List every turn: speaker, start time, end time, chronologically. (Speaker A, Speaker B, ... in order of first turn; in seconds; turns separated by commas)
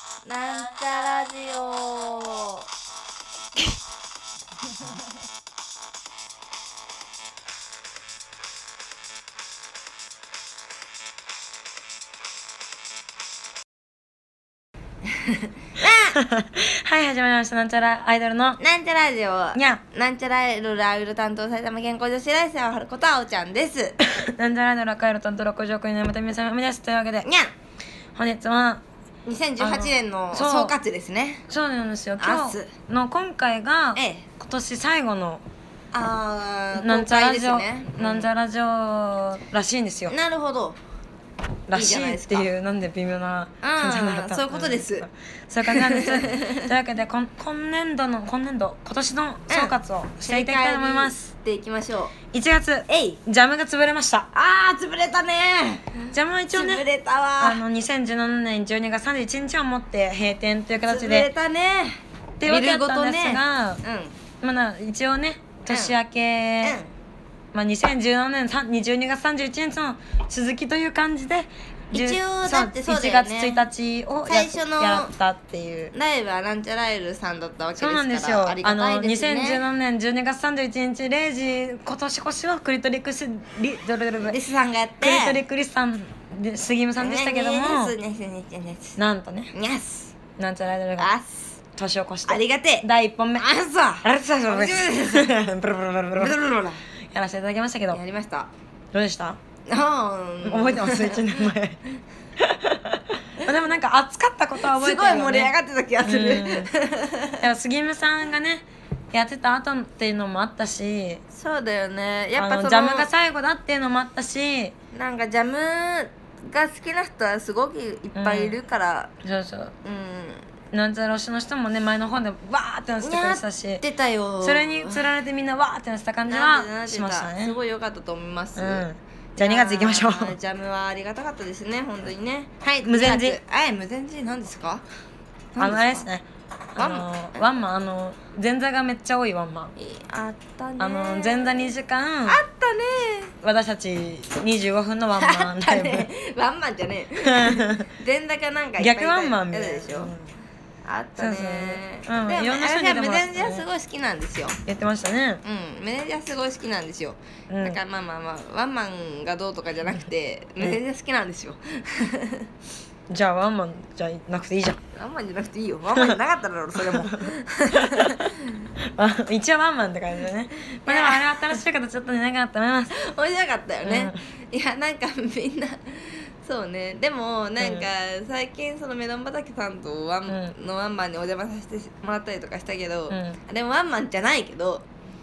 Speaker A: 0.2-2.7, Speaker A: 15.8-16.2, Speaker B: 16.1-18.6, Speaker A: 18.6-24.0, Speaker B: 19.6-19.8, Speaker B: 24.1-27.3, Speaker A: 27.2-27.5, Speaker B: 28.2-28.8, Speaker A: 29.3-31.5, Speaker B: 29.6-30.7, Speaker B: 31.5-35.4, Speaker A: 32.2-32.7, Speaker A: 34.0-34.3, Speaker A: 35.9-38.3, Speaker B: 36.8-40.2, Speaker A: 40.1-40.8, Speaker B: 41.7-51.3, Speaker A: 41.7-42.5, Speaker A: 43.6-45.1, Speaker A: 45.7-46.7, Speaker A: 49.5-52.1, Speaker B: 52.3-54.3, Speaker A: 52.9-53.2, Speaker A: 54.3-57.6, Speaker B: 56.1-56.9, Speaker B: 57.4-61.3, Speaker A: 60.9-64.2, Speaker B: 62.4-63.8, Speaker B: 64.4-66.8, Speaker A: 65.7-66.0, Speaker A: 66.6-66.9, Speaker B: 67.5-75.9, Speaker A: 71.9-73.6, Speaker A: 74.3-75.1, Speaker A: 75.9-79.6, Speaker B: 77.8-84.4, Speaker A: 84.2-85.4, Speaker B: 85.0-88.0, Speaker A: 87.0-89.0, Speaker B: 89.0-89.5, Speaker A: 89.5-90.1, Speaker B: 90.4-91.1, Speaker A: 91.0-91.6, Speaker B: 91.8-93.5, Speaker A: 92.3-92.9, Speaker A: 93.4-95.3, Speaker B: 94.0-96.4, Speaker A: 96.2-96.8, Speaker B: 97.1-98.0, Speaker A: 97.9-98.5, Speaker B: 98.9-99.4, Speaker A: 99.7-101.5, Speaker B: 100.5-101.8, Speaker B: 102.4-105.5, Speaker A: 104.6-107.4, Speaker B: 106.0-106.7, Speaker B: 107.4-111.2, Speaker A: 111.3-113.1, Speaker B: 112.4-114.7, Speaker A: 114.9-119.1, Speaker B: 118.2-118.6, Speaker B: 119.2-119.7, Speaker A: 119.8-120.4, Speaker B: 120.7-123.8, Speaker A: 123.0-125.1, Speaker B: 124.4-127.6, Speaker A: 126.3-128.9, Speaker B: 128.6-130.3, Speaker A: 129.4-134.8, Speaker B: 132.8-133.4, Speaker A: 135.5-136.1, Speaker B: 135.6-139.8, Speaker A: 136.8-137.5, Speaker A: 139.8-141.7, Speaker B: 140.8-142.4, Speaker A: 142.3-143.3, Speaker B: 143.4-146.1, Speaker A: 145.2-150.1, Speaker B: 147.2-147.9, Speaker B: 148.8-150.2, Speaker A: 150.8-154.6, Speaker B: 151.2-153.7, Speaker B: 154.7-155.4, Speaker A: 155.4-162.5, Speaker B: 157.5-157.8, Speaker B: 163.1-164.8, Speaker A: 164.9-168.5, Speaker B: 166.8-168.3, Speaker B: 168.8-172.9, Speaker A: 170.8-171.6, Speaker A: 172.9-184.8, Speaker B: 173.8-174.2, Speaker B: 177.6-177.9, Speaker B: 180.3-180.5, Speaker B: 183.1-183.4